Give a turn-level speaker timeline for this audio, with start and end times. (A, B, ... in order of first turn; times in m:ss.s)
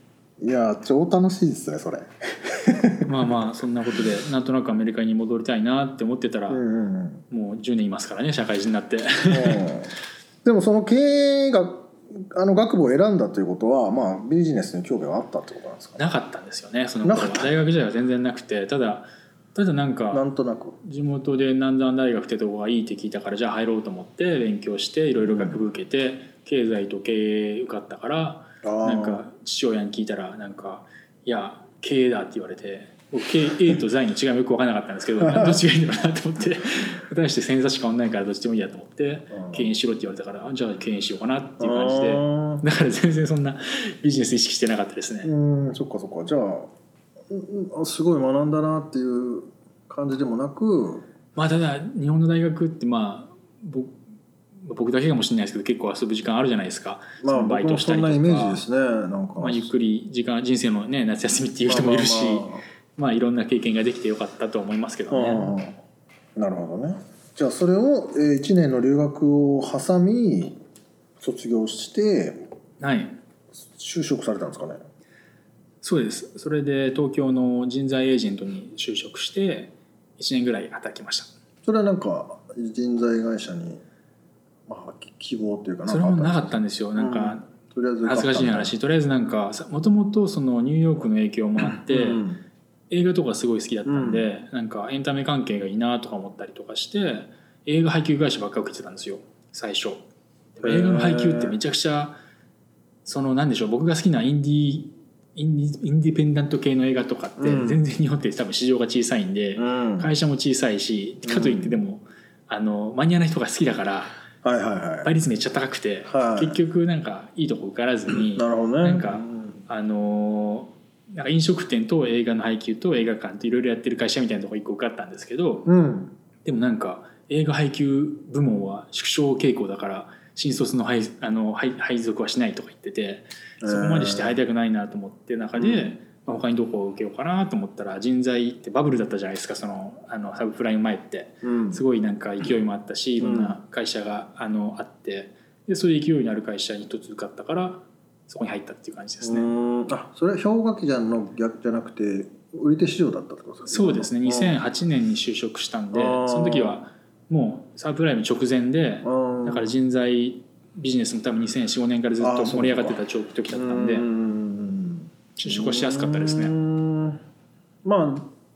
0:00.4-0:03.2 A
0:03.0-0:06.6 B
0:06.5-0:07.2 A
0:07.3-0:09.7 B
0:09.3-0:16.0 A
0:16.0-0:20.2 B
0:17.0-0:17.5 A
0:20.1-0:20.8 A
0:20.8-0:45.3 B
0:25.2-0:25.6 A
0:28.6-0:29.2 A
0:35.2-0:35.6 A
0:39.3-0:39.7 A
0:41.6-0:42.6 A
0:45.2-0:46.7 A
0:47.3-0:51.1 A
0:51.4-0:54.0 B
0:54.6-0:58.6 B
0:57.2-0:59.7 A
0:59.4-1:05.5 B
1:01.7-1:02.6 A
1:05.1-1:05.8 A
1:06.4-1:10.6 A
1:11.2-1:12.5 A
1:12.8-1:13.2 B
1:13.6-1:14.8 A
1:15.8-1:21.3 B
1:21.6-1:23.8 A
1:24.7-1:28.8 A
1:25.9-1:27.5 B
1:28.0-1:32.2 B
1:31.7-1:32.4 A
1:32.9-1:40.0 B
1:33.9-1:34.2 A
1:40.6-1:42.2 B
1:40.6-1:41.6 A
1:43.0-1:54.2 B
1:47.4-1:47.8 A
1:49.6-1:50.1 A
1:51.2-1:51.8 A
1:54.4-1:55.2 A
1:55.0-2:05.7 B
1:56.1-1:56.6 A
1:58.1-1:59.6 A
2:05.7-2:06.1 A
2:06.4-2:29.5 B
2:13.6-2:14.4 A
2:15.6-2:15.9 A
2:21.4-2:21.8 A
2:23.2-2:23.6 A
2:29.2-2:34.6 A
2:33.7-2:44.1 B
2:35.9-2:36.8 A
2:39.0-2:39.8 A
2:42.2-2:47.2 A
2:45.4-2:46.6 B
2:47.8-2:48.3 A